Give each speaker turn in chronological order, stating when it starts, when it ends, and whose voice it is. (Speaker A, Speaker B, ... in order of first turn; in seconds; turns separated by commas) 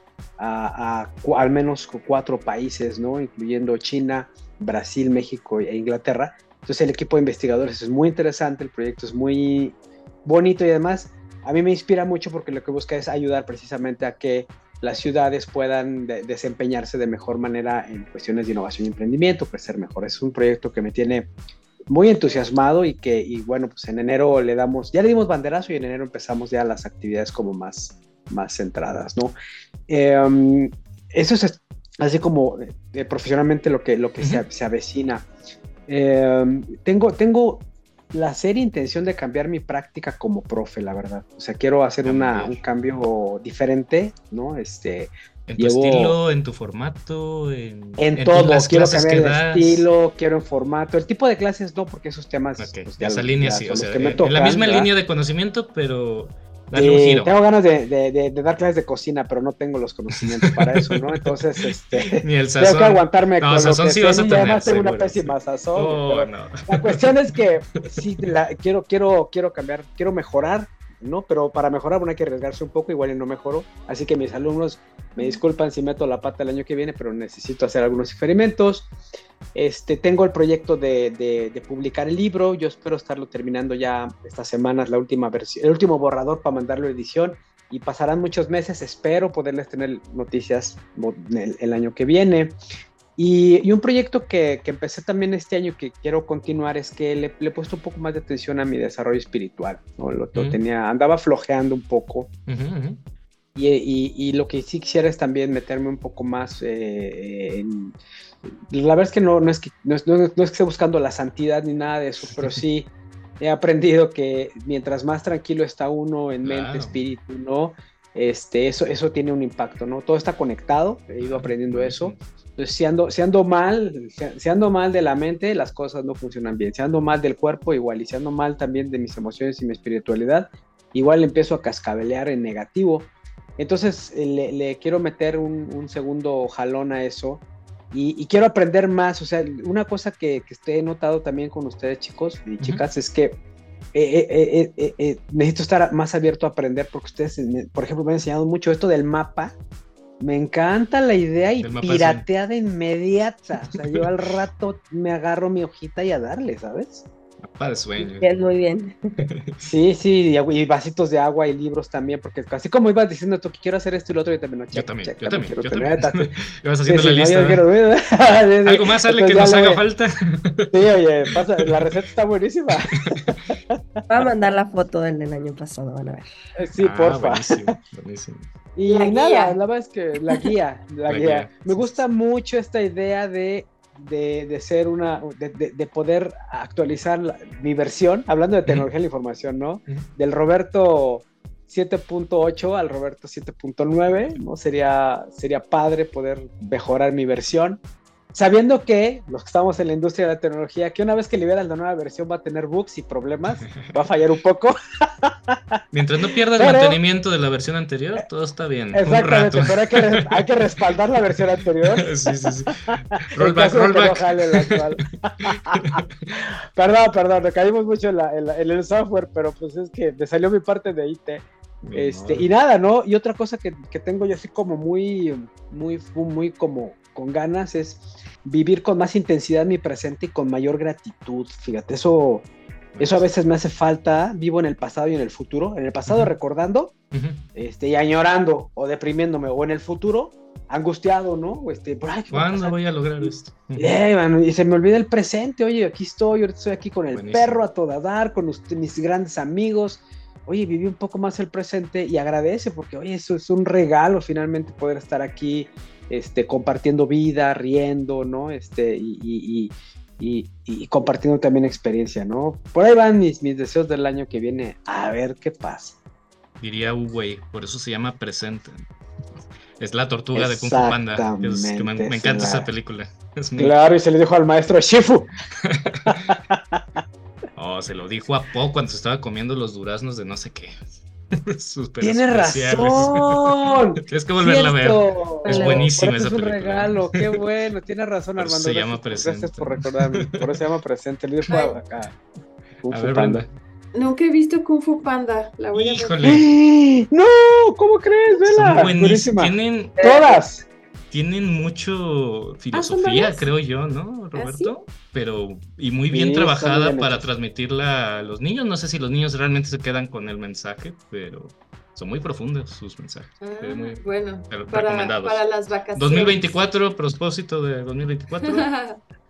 Speaker A: 0.4-21.3, Speaker A: 21.9-29.3, Speaker A: 29.9-35.3, Speaker A: 35.9-46.2, Speaker B: 42.0-42.6, Speaker B: 45.5-49.9, Speaker A: 48.0-54.9, Speaker B: 52.6-57.3, Speaker A: 56.7-78.9, Speaker B: 60.2-61.4, Speaker B: 62.1-67.9, Speaker A: 79.5-92.6, Speaker A: 93.2-102.3, Speaker B: 100.3-100.6, Speaker B: 102.5-103.0, Speaker A: 103.5-143.4, Speaker B: 116.4-117.0, Speaker B: 121.2-122.2, Speaker A: 143.9-149.6, Speaker A: 150.2-157.1, Speaker B: 151.6-152.2, Speaker B: 157.4-158.3, Speaker C: 158.0-159.2, Speaker B: 159.2-159.7, Speaker A: 159.6-166.3, Speaker B: 164.7-167.6, Speaker A: 166.9-169.8, Speaker B: 168.6-170.7, Speaker A: 170.7-174.0, Speaker B: 172.9-173.4, Speaker C: 174.1-176.3, Speaker A: 176.6-177.6, Speaker B: 176.8-178.5, Speaker A: 178.8-197.8, Speaker D: 178.9-179.6, Speaker B: 181.1-182.0, Speaker A: 198.3-205.8, Speaker B: 203.7-203.9, Speaker B: 205.9-210.9, Speaker A: 206.6-207.0, Speaker A: 208.9-212.1, Speaker B: 211.8-214.9, Speaker A: 213.3-232.5, Speaker B: 215.4-216.0, Speaker B: 221.8-222.5, Speaker B: 232.9-233.3, Speaker A: 233.0-236.9, Speaker B: 236.1-236.3, Speaker B: 237.1-237.5, Speaker A: 237.6-266.0, Speaker B: 242.3-243.9, Speaker B: 247.1-247.6, Speaker B: 266.6-268.9, Speaker B: 269.8-273.8, Speaker A: 270.4-272.7, Speaker A: 273.6-275.3, Speaker B: 275.6-276.3, Speaker A: 276.1-277.0, Speaker B: 277.6-280.8, Speaker B: 281.4-287.2, Speaker A: 282.0-292.1, Speaker D: 285.4-285.9, Speaker B: 288.4-290.1, Speaker D: 291.5-291.8, Speaker A: 292.8-293.4, Speaker B: 292.9-293.5, Speaker D: 293.9-296.4, Speaker B: 295.7-296.4, Speaker A: 296.2-300.7, Speaker B: 298.4-300.0, Speaker D: 300.0-300.3, Speaker B: 301.1-315.4, Speaker D: 302.7-303.5, Speaker D: 304.4-304.7, Speaker A: 306.1-307.2, Speaker D: 313.4-316.7, Speaker B: 315.9-318.7, Speaker D: 318.5-319.0